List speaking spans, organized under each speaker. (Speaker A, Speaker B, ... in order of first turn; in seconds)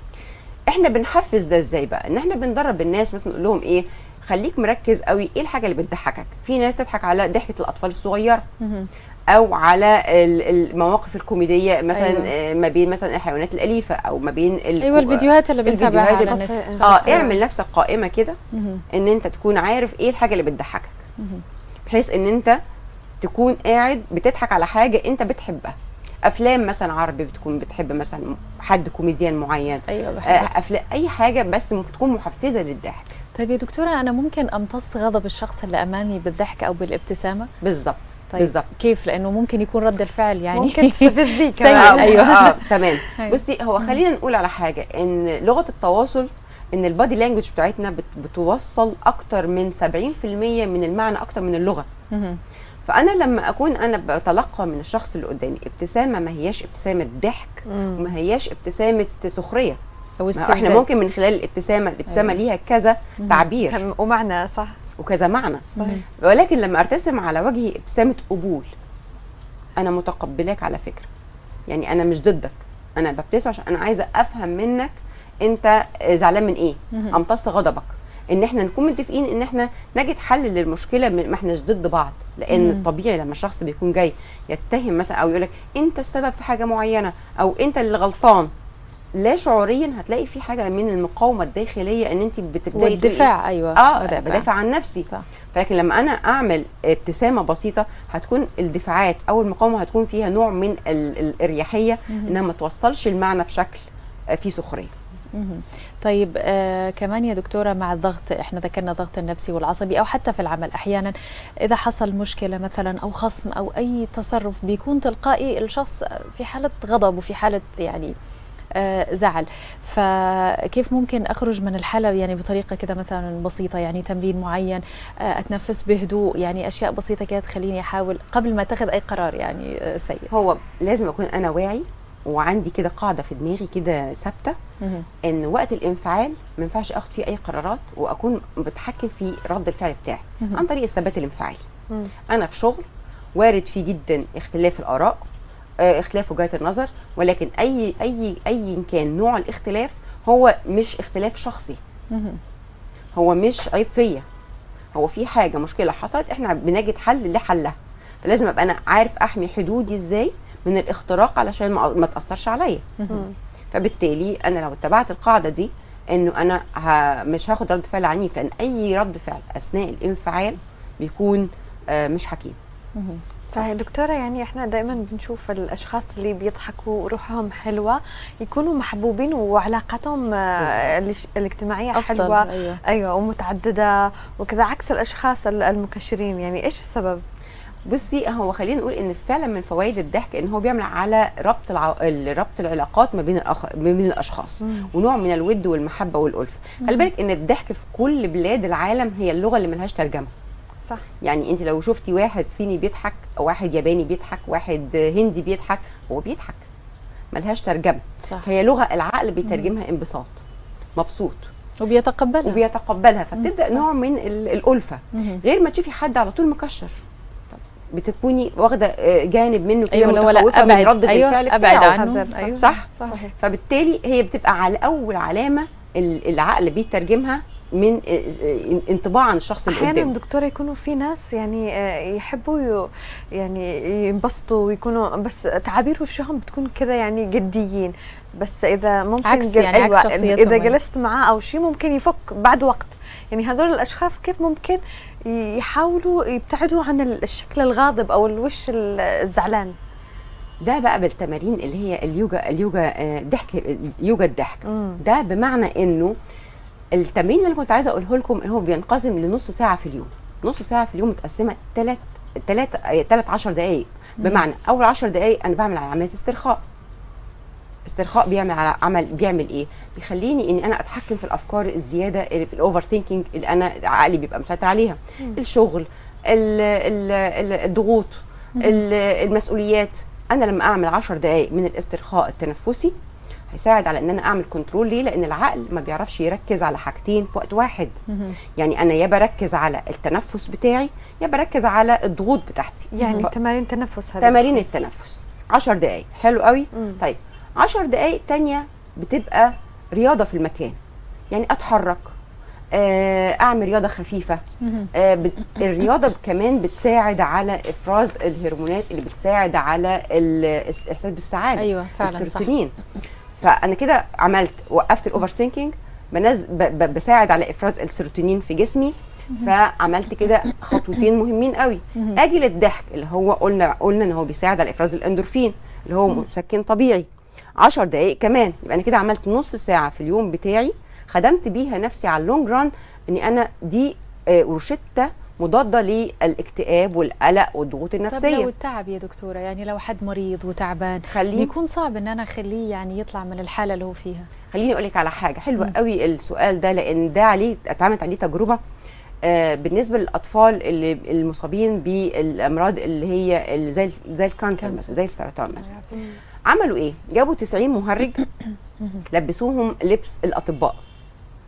Speaker A: 0.7-8.4, 9.3-18.4, 18.9-21.0, 21.9-22.6, 23.2-33.1, 37.6-38.7, 41.7-51.9, 52.9-59.8, 60.4-63.8, 65.0-68.7, 69.8-71.1, 71.7-88.5, 89.2-104.9, 130.3-134.6, 135.2-141.6, 142.3-145.2, 145.8-151.8, 153.2-154.2, 154.9-162.8, 163.7-172.6, 187.9-200.3, 201.2-206.6, 207.3-210.4, 210.9-211.5, 212.4-216.9, 217.5-222.0, 222.6-230.1, 250.6-256.1, 256.9-266.6, 267.9-282.9, 283.5-288.0, 288.6-293.3, 294.2-300.8, 301.3-302.1, 302.7-304.4, 304.9-312.7, 313.4-338.5, 341.1-341.5, 344.5-348.6, 349.2-355.7, 356.5-358.3, 359.1-360.8
Speaker B: 8.6-8.9, 11.9-12.3, 14.8-17.2, 18.5-18.8, 29.9-30.6, 33.4-37.5, 38.3-44.0, 52.1-52.4, 60.2-60.9, 82.5-82.9, 92.8-94.5, 102.1-102.4, 105.3-111.1, 111.6-118.1, 118.8-130.3, 134.8-135.1, 152.1-152.4, 163.0-163.2, 173.0-173.2, 181.9-182.8, 211.8-212.6, 215.2-215.4, 219.9-223.3, 239.2-240.8, 288.1-288.4, 293.0-293.3, 304.6-304.9, 311.6-312.5, 338.1-344.3, 354.6-354.9, 355.6-355.9
Speaker C: 16.3-17.3, 40.5-43.0, 57.7-58.1, 63.7-64.8, 173.5-187.2, 194.6-194.9, 222.0-223.3, 229.7-249.8, 254.7-255.0, 292.9-294.6, 296.8-297.0